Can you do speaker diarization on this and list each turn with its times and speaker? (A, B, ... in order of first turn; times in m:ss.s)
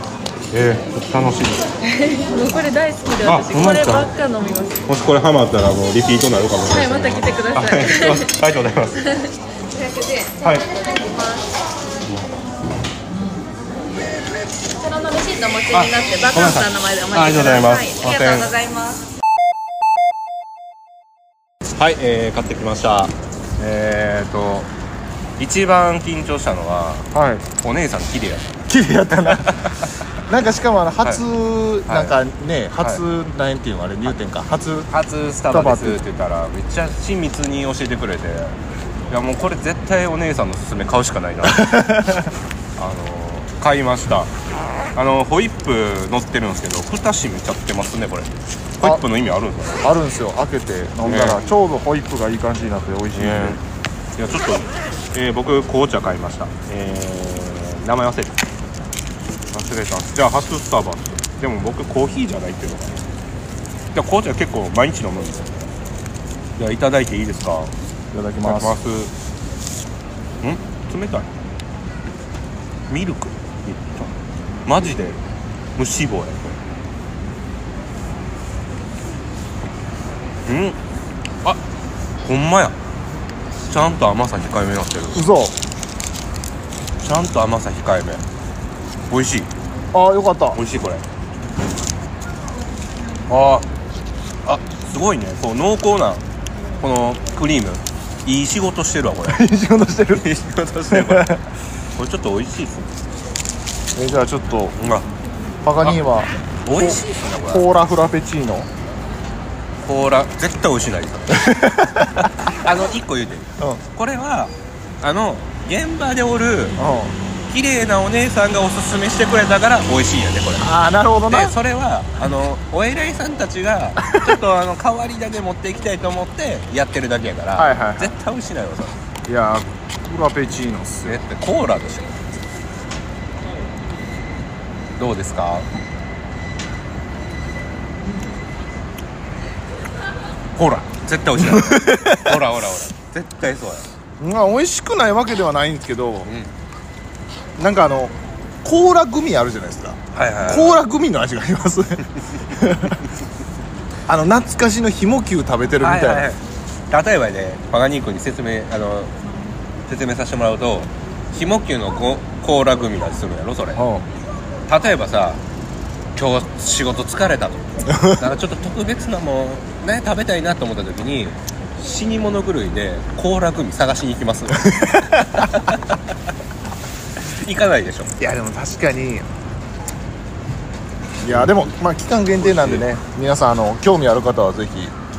0:00.5-0:01.7 A
0:01.8-0:04.8 B
0:03.2-0:04.1 A
0:04.9-0:09.0 A
0:06.6-0:08.3 B
0:09.0-0:11.5 B
0:10.4-0:10.7 A
0:14.8-0:19.0 B
0:15.7-0:18.5 A
0:21.8-0:24.7 A
0:25.4-0:28.5 A
0:27.1-0:27.4 C
0:28.7-0:29.7 C
0:29.3-0:29.9 A
0:30.2-0:34.9 C
0:31.9-0:32.1 A
0:34.9-0:41.8 A
0:35.5-0:36.0 C
0:41.5-0:42.3 C
0:42.8-0:44.3 A
0:44.9-0:49.9 A
0:49.8-0:53.6 C
0:51.0-0:51.4 A
0:53.1-0:53.6 A
0:54.2-0:58.4 A
0:59.5-1:03.0 A
1:03.9-1:05.6 A
1:06.6-1:07.7 A
1:08.1-1:08.8 C
1:08.4-1:09.1 A
1:10.4-1:11.3 A
1:12.9-1:14.1 A
1:14.6-1:15.2 A
1:15.8-1:16.6 A
1:20.5-1:20.8 A
1:22.2-1:22.8 A
1:23.6-1:25.2 A
1:25.1-1:25.5 C
1:27.0-1:28.2 A
1:29.1-1:29.5 A
1:29.9-1:30.6 C
1:30.5-1:31.0 A
1:33.3-1:33.6 A
1:34.4-1:36.2 A
1:36.8-1:39.4 A
1:39.3-1:40.2 C
1:40.1-1:41.4 A
1:40.9-1:41.4 C
1:42.0-1:43.2 A
1:43.9-1:44.8 C
1:44.8-1:45.1 A
1:45.6-1:48.7 C
1:46.6-1:47.7 A
1:49.8-1:51.6 A
1:51.3-1:52.5 C
1:52.6-1:56.8 A
1:56.8-1:57.1 C
1:57.5-2:00.7 A
2:00.6-2:01.5 C
2:01.3-2:09.0 A
2:07.6-2:08.1 C
2:09.3-2:11.2 C
2:11.0-2:12.1 A
2:15.0-2:15.7 A
2:20.5-2:23.8 A
2:21.4-2:22.4 C
2:24.2-2:26.3 C
2:26.2-2:26.5 A
2:27.6-2:33.0 C
2:30.1-2:30.8 A
2:34.1-2:36.2 C
2:35.8-2:39.1 A
2:39.8-2:43.8 A
2:43.8-2:44.0 C
2:44.7-2:45.4 A
2:46.2-2:55.8 A
2:47.9-2:48.2 C
2:54.6-2:55.7 C
2:57.2-2:58.1 A
2:58.2-2:59.3 C
3:01.2-3:04.9 C
3:01.3-3:01.7 A
3:02.4-3:02.9 A